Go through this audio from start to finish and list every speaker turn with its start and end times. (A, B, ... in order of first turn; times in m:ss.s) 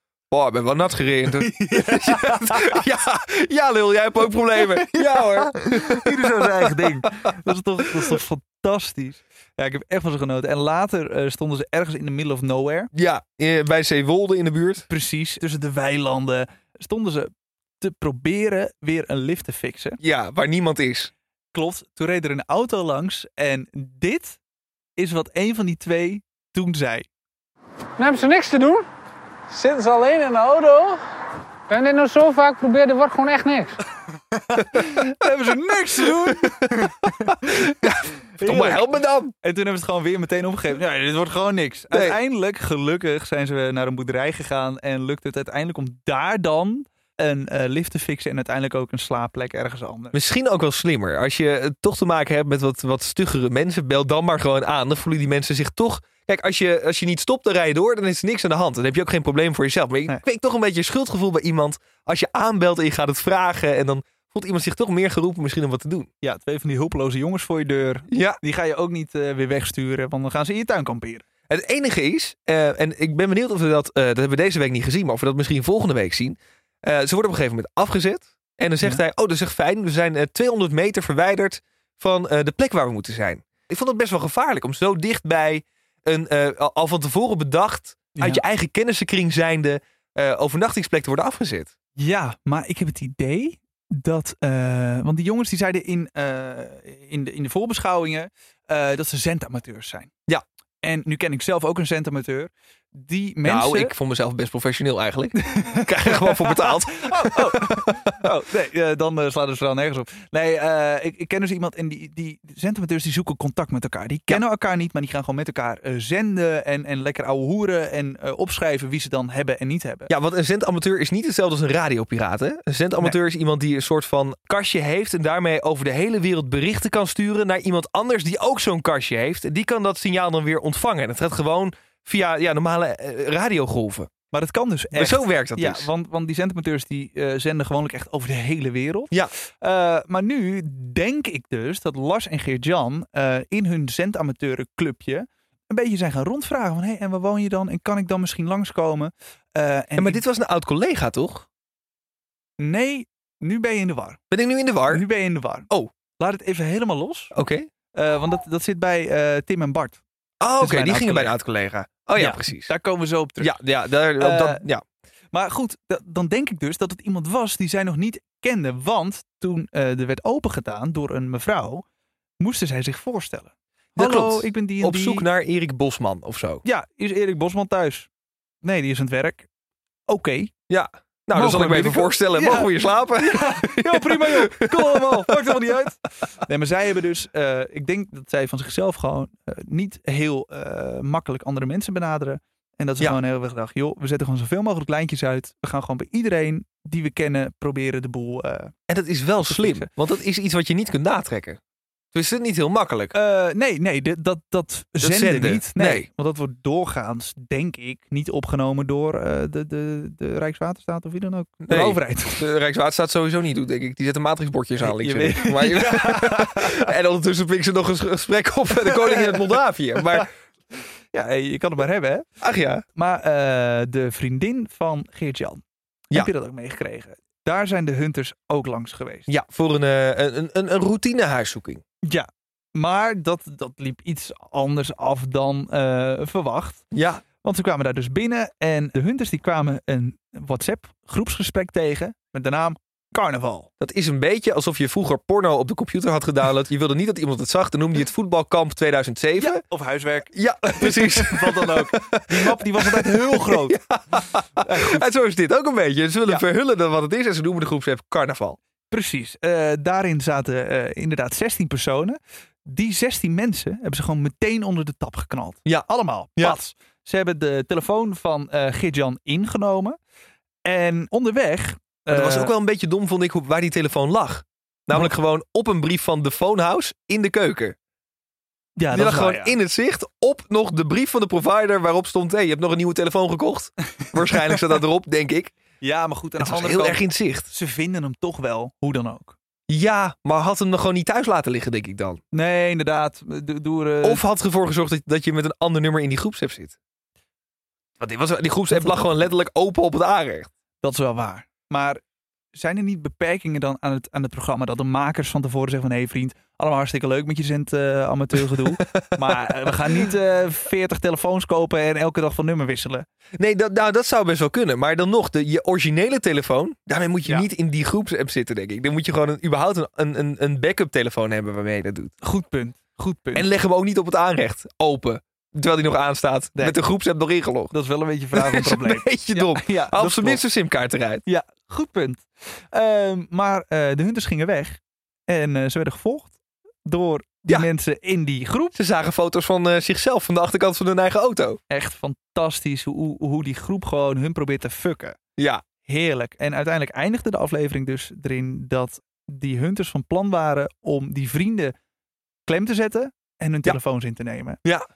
0:00.3-0:07.1 A
0:01.4-0:02.8 B
0:04.8-0:12.9 B
0:12.9-0:14.8 A
0:14.9-0:20.0 B
0:20.0-0:21.1 A
0:21.5-0:24.4 B
0:25.0-0:27.1 B
0:28.0-0:28.8 C
0:29.5-0:31.0 C
0:31.7-0:33.8 C
0:34.3-0:38.9 B
0:34.7-0:35.1 A
0:36.2-0:39.3 A
0:39.4-0:50.2 B
0:41.9-0:42.2 A
0:50.1-1:06.1 A
1:06.2-1:11.2 B
1:08.1-1:08.4 A
1:11.5-1:31.7 A
1:28.1-1:28.4 B
1:32.0-1:40.1 B
1:40.8-1:43.9 B
1:43.4-1:48.1 A
1:45.4-2:00.1 B
2:00.1-2:14.1 A
2:14.3-2:30.2 B
2:14.9-2:15.9 A
2:30.0-2:31.5 A
2:32.6-2:34.2 B
2:34.3-2:35.0 A
2:34.9-2:37.3 B
2:37.3-2:37.7 A
2:37.9-2:40.0 B
2:40.4-2:42.7 A
2:40.6-2:41.3 B
2:42.2-2:43.6 B
2:43.4-2:44.8 A
2:44.2-2:44.6 B
2:45.3-2:51.8 B
2:52.4-2:55.2 B
2:54.0-2:56.6 A
2:56.6-2:58.1 B
2:58.6-2:59.5 B
3:00.1-3:00.5 B
3:00.7-3:05.5 A
3:01.3-3:18.7 B
3:18.9-3:21.6 A
3:19.4-3:19.9 B
3:22.1-3:23.1 A
3:23.1-3:32.4 B
3:25.0-3:26.1 A
3:31.7-3:40.3 A
3:34.8-3:36.9 B
3:38.7-3:42.2 B
3:42.4-3:42.8 A
3:42.9-3:49.3 B
3:49.3-3:51.8 A
3:52.0-3:56.9 B
3:56.9-3:57.2 A
3:57.4-4:03.7 B
4:03.8-4:09.6 A
4:09.4-4:13.8 B
4:10.3-4:18.6 A
4:14.6-4:15.0 B
4:18.9-4:30.0 B
4:25.6-4:26.6 A
4:30.6-4:32.5 B
4:32.1-4:37.8 A
4:38.8-4:39.5 B
4:38.9-4:45.5 A
4:45.8-4:49.4 B
4:46.4-4:47.5 A
4:49.7-4:52.2 A
4:52.3-4:54.2 B
4:54.0-4:56.7 A
4:58.0-5:00.5 A
4:58.7-4:59.0 B
5:00.8-5:02.0 B
5:02.5-5:13.0 B
5:08.8-5:09.3 A
5:13.4-5:22.1 A
5:22.2-5:23.5 B
5:23.3-5:27.7 A
5:27.7-5:30.4 B
5:28.3-5:31.2 A
5:31.2-5:38.8 B
5:38.7-5:41.6 A
5:41.7-5:45.2 B
5:45.4-5:45.6 A
5:45.8-5:51.7 B
5:52.4-5:54.6 B